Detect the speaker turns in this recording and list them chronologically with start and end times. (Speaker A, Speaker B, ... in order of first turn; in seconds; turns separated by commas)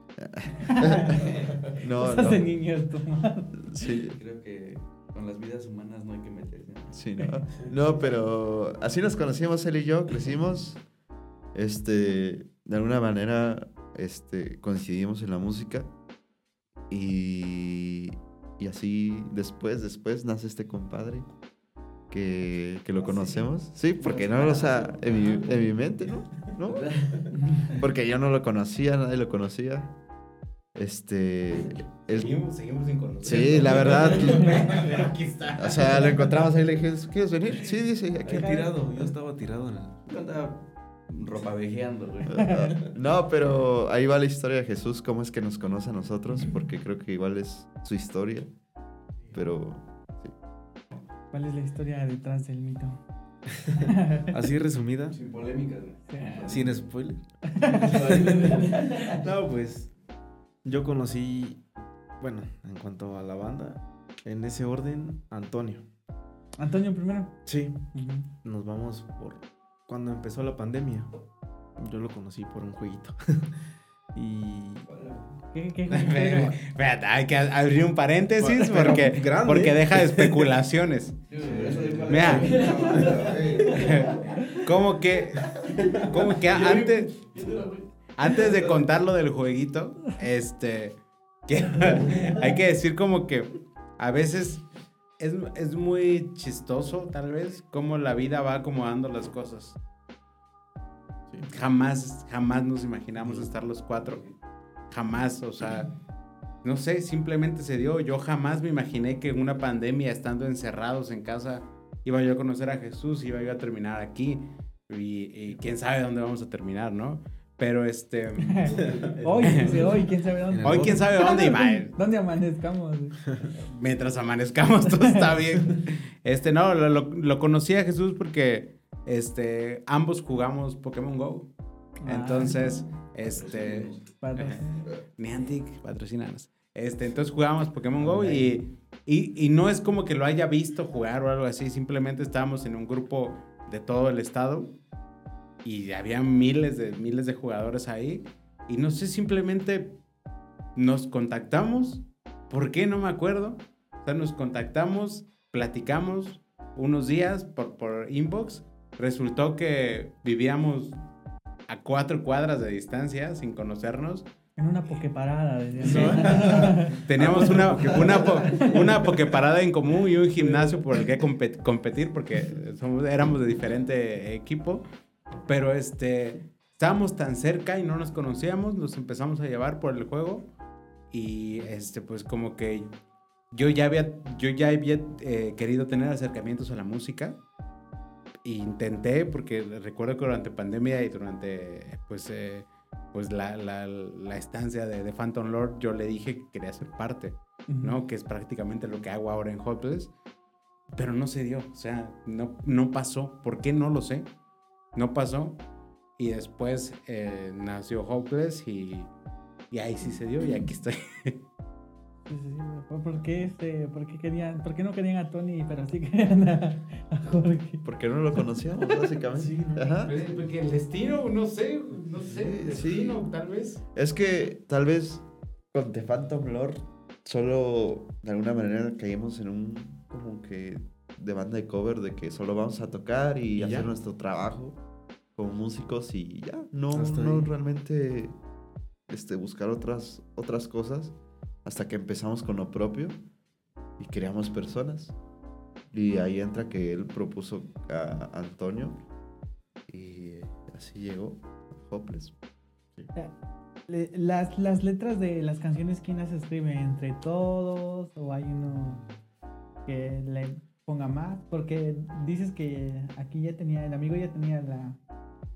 Speaker A: 0.2-2.5, Speaker B: 0.6-1.2, Speaker C: 1.1-1.6, Speaker B: 1.9-3.6, Speaker A: 3.7-4.2, Speaker C: 4.1-7.0, Speaker A: 6.9-10.8, Speaker A: 11.5-15.9, Speaker A: 16.9-21.3, Speaker A: 22.1-26.9, Speaker B: 23.0-23.4, Speaker C: 24.0-25.4, Speaker C: 26.6-27.3, Speaker A: 27.6-29.9, Speaker A: 30.7-32.3, Speaker D: 32.1-36.3, Speaker A: 33.2-34.8, Speaker A: 35.6-38.5, Speaker E: 38.2-40.0, Speaker B: 38.3-39.0, Speaker C: 40.1-42.4, Speaker B: 42.3-42.8, Speaker A: 42.3-48.5, Speaker A: 49.3-50.3, Speaker B: 51.3-53.0, Speaker B: 53.8-54.3, Speaker E: 54.3-55.2, Speaker C: 55.1-56.7, Speaker B: 56.1-56.4, Speaker E: 56.5-59.9, Speaker B: 57.5-59.1, Speaker C: 57.8-59.2, Speaker E: 60.6-61.6, Speaker E: 62.2-65.9, Speaker B: 66.6-68.3, Speaker E: 67.5-67.8, Speaker E: 68.4-71.1, Speaker E: 71.8-75.0, Speaker B: 75.5-76.6, Speaker D: 75.9-81.2, Speaker E: 78.4-80.5, Speaker C: 81.3-83.3, Speaker E: 81.3-83.6, Speaker A: 81.5-84.0, Speaker D: 82.0-82.7, Speaker B: 82.9-83.1, Speaker D: 83.7-87.3, Speaker E: 85.7-88.8, Speaker D: 88.2-94.7, Speaker D: 95.2-99.8, Speaker D: 101.5-104.2, Speaker D: 104.9-105.9, Speaker D: 106.6-119.8, Speaker B: 118.4-123.2, Speaker E: 118.7-120.0, Speaker C: 120.5-121.0, Speaker D: 120.6-121.9, Speaker D: 123.6-131.5, Speaker B: 125.0-125.3, Speaker D: 132.0-144.8, Speaker B: 132.0-132.9, Speaker C: 133.2-133.9, Speaker B: 134.2-134.9, Speaker E: 138.0-138.4, Speaker D: 145.6-150.0, Speaker D: 150.8-160.9, Speaker D: 161.7-164.3, Speaker B: 164.6-167.0, Speaker D: 165.8-174.8, Speaker E: 167.2-168.6, Speaker B: 170.4-170.8, Speaker D: 175.4-180.5, Speaker D: 181.1-182.9, Speaker D: 183.5-187.4, Speaker D: 188.4-200.1, Speaker B: 197.7-198.0, Speaker D: 200.9-204.3, Speaker D: 204.9-205.6, Speaker D: 206.2-209.1, Speaker D: 209.7-211.4, Speaker B: 212.2-218.6, Speaker A: 217.8-220.2, Speaker E: 219.3-220.0, Speaker D: 220.0-223.8, Speaker A: 222.3-223.2, Speaker A: 223.9-234.8, Speaker E: 233.6-233.9, Speaker A: 235.3-238.3, Speaker E: 236.9-237.5, Speaker A: 239.1-243.2, Speaker A: 244.0-245.1, Speaker A: 245.9-249.0, Speaker A: 249.9-252.3, Speaker B: 253.9-259.0, Speaker B: 259.9-265.0